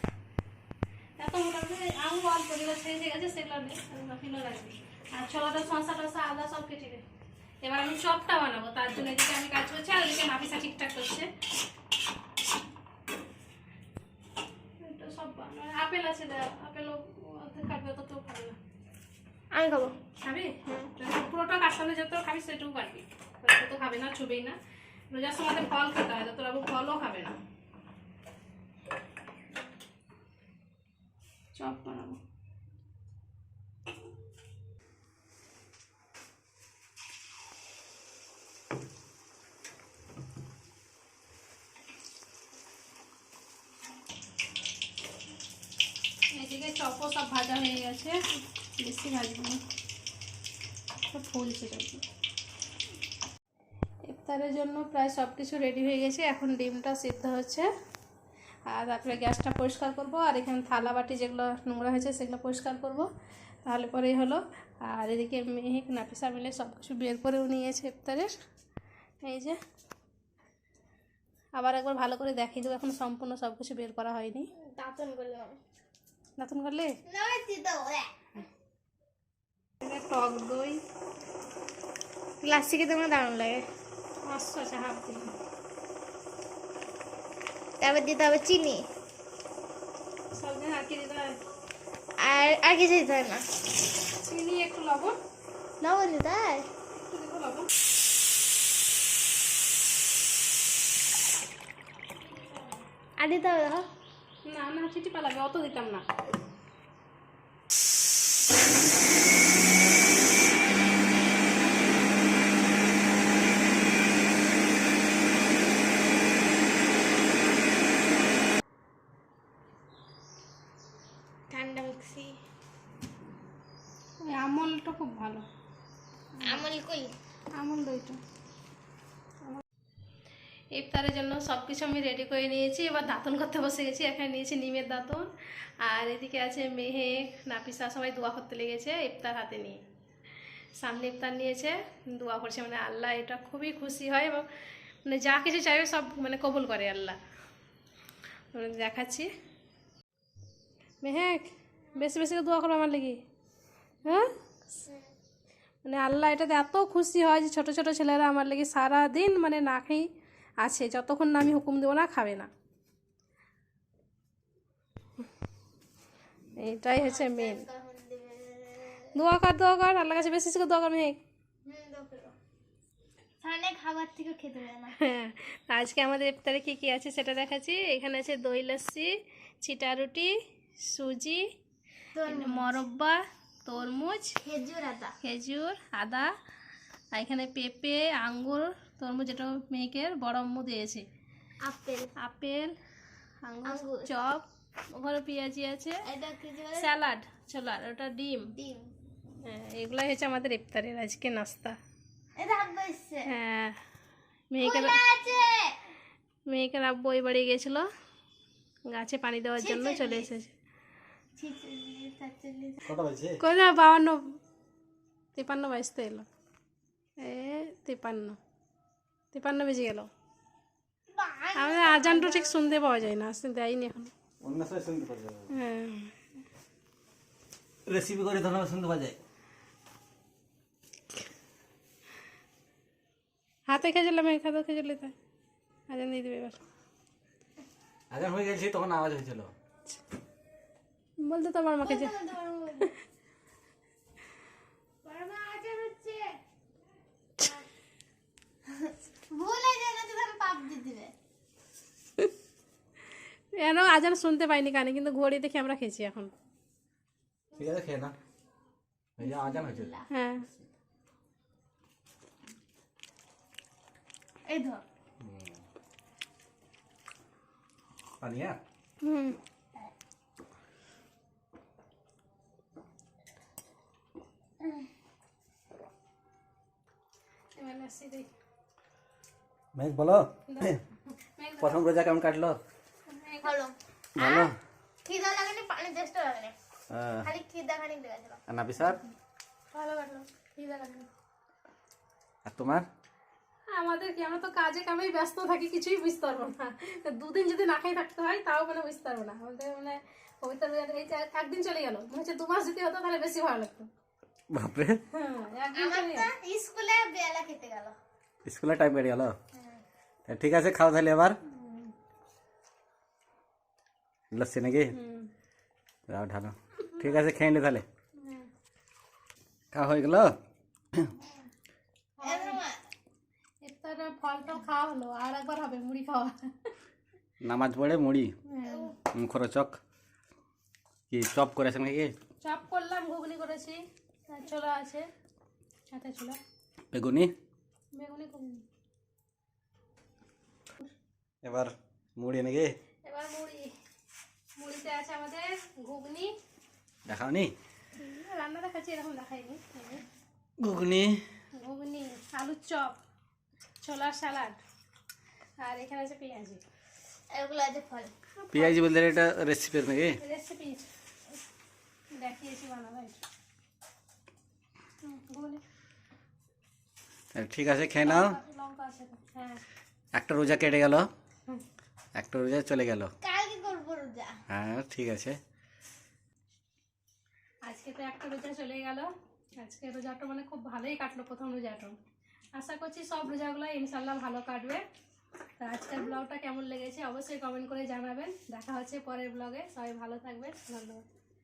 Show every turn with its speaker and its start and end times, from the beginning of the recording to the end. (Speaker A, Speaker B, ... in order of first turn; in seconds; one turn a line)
Speaker A: 1.2-7.0
Speaker A: 7.6-11.3
Speaker A: 14.8-18.6
Speaker B: 19.5-19.9
Speaker A: 20.2-24.6
Speaker A: 25.1-27.4
Speaker A: 31.6-32.2
Speaker A: 46.4-48.2
Speaker A: 48.8-49.6
Speaker A: 51.1-52.0
Speaker A: 54.1-57.7
Speaker A: 58.7-63.1
Speaker A: 63.6-68.3
Speaker A: 69.2-69.6
Speaker A: 71.6-74.5
Speaker B: 74.6-75.6
Speaker A: 76.4-76.9
Speaker B: 77.1-78.1
Speaker A: 79.8-80.8
Speaker B: 82.4-83.6
Speaker A: 84.3-85.3
Speaker B: 87.8-88.8
Speaker A: 90.3-91.4
Speaker B: 92.2-93.4
Speaker A: 94.1-95.2
Speaker B: 95.8-96.7
Speaker A: 97.0-97.7
Speaker A: 102.4-102.8
Speaker B: 103.2-103.9
Speaker A: 104.5-106.0
Speaker B: 121.5-122.4
Speaker A: 124.2-125.5
Speaker A: 126.4-126.6
Speaker B: 126.5-127.1
Speaker A: 127.6-128.2
Speaker A: 130.8-135.3
Speaker A: 135.8-139.8
Speaker A: 140.8-144.5
Speaker A: 145.1-147.2
Speaker A: 148.5-149.3
Speaker A: 151.0-151.4
Speaker A: 151.9-153.2
Speaker A: 154.1-154.3
Speaker A: 155.8-160.1
Speaker A: 160.6-162.5
Speaker A: 166.6-167.6
Speaker B: 167.0-169.1
Speaker A: 169.2-171.2
Speaker B: 171.7-172.3
Speaker B: 173.4-175.0
Speaker A: 175.0-179.1
Speaker A: 179.6-181.4
Speaker B: 182.2-182.7
Speaker A: 182.2-184.4
Speaker B: 184.4-185.1
Speaker A: 185.2-186.3
Speaker A: 187.1-191.1
Speaker B: 191.6-192.1
Speaker A: 192.2-192.8
Speaker A: 193.4-196.1
Speaker B: 193.7-194.1
Speaker B: 196.1-196.9
Speaker A: 196.8-198.5
Speaker B: 198.6-198.9
Speaker A: 199.4-201.8
Speaker B: 202.4-203.3
Speaker A: 203.3-203.8
Speaker A: 204.5-205.0
Speaker B: 204.6-205.8
Speaker A: 206.5-207.9
Speaker A: 208.9-210.5
Speaker B: 209.6-210.3
Speaker B: 211.4-212.8
Speaker C: 212.8-213.4
Speaker A: 213.4-214.4
Speaker A: 215.3-216.3
Speaker A: 217.2-218.4
Speaker A: 219.3-220.1
Speaker B: 221.1-222.7
Speaker A: 221.6-224.1
Speaker C: 224.4-225.5
Speaker A: 225.5-226.2
Speaker C: 227.9-229.2
Speaker A: 233.7-235.1
Speaker A: 235.9-236.6
Speaker C: 238.1-239.5
Speaker A: 241.2-242.1
Speaker B: 241.8-242.9
Speaker B: 245.0-246.4
Speaker B: 248.8-251.1
Speaker A: 253.6-256.3
Speaker C: 257.6-258.1
Speaker C: 259.2-259.9
Speaker B: 259.2-260.1
Speaker A: 260.1-260.5
Speaker B: 264.5-264.8
Speaker C: 265.2-265.6
Speaker C: 268.2-268.6
Speaker A: 269.0-269.4
Speaker A: 277.6-278.3
Speaker C: 279.8-280.8
Speaker A: 280.5-281.8
Speaker C: 281.6-282.6
Speaker A: 283.1-283.5
Speaker B: 283.4-284.5
Speaker C: 284.2-284.6
Speaker B: 285.1-286.6
Speaker C: 286.9-287.3
Speaker B: 287.2-288.4
Speaker C: 288.5-289.0
Speaker A: 289.7-290.3
Speaker B: 290.6-291.1
Speaker C: 292.5-292.9
Speaker A: 293.7-303.9
Speaker C: 304.5-305.0
Speaker A: 305.1-306.3
Speaker B: 305.7-308.0
Speaker C: 308.4-309.4
Speaker B: 309.5-309.8
Speaker C: 310.3-311.4
Speaker A: 311.5-311.9
Speaker C: 314.3-314.9
Speaker A: 314.9-315.3
Speaker C: 316.1-317.9
Speaker A: 318.2-318.5
Speaker C: 319.7-320.3
Speaker A: 322.2-322.6
Speaker B: 322.2-322.8
Speaker A: 323.6-326.7
Speaker C: 327.4-328.4
Speaker A: 328.5-328.9
Speaker B: 328.6-328.9
Speaker C: 329.1-329.8
Speaker C: 331.1-332.1
Speaker A: 332.4-335.1
Speaker A: 335.9-336.4
Speaker C: 336.9-337.3
Speaker A: 337.9-338.6
Speaker C: 341.4-342.8
Speaker A: 343.1-343.7
Speaker A: 344.6-346.3
Speaker C: 347.1-347.5
Speaker A: 348.0-350.0
Speaker C: 350.6-351.2
Speaker A: 351.5-353.0
Speaker A: 353.8-354.6
Speaker A: 355.6-356.6
Speaker B: 357.3-358.1
Speaker A: 358.4-358.8
Speaker C: 358.5-360.2
Speaker A: 360.2-360.9
Speaker A: 362.2-363.2
Speaker A: 365.0-365.6
Speaker C: 367.4-368.4
Speaker A: 368.0-369.6
Speaker C: 370.1-371.1
Speaker C: 372.2-373.1
Speaker B: 373.2-374.3
Speaker C: 374.5-375.4
Speaker A: 377.6-381.9
Speaker A: 382.6-384.8
Speaker A: 385.6-391.0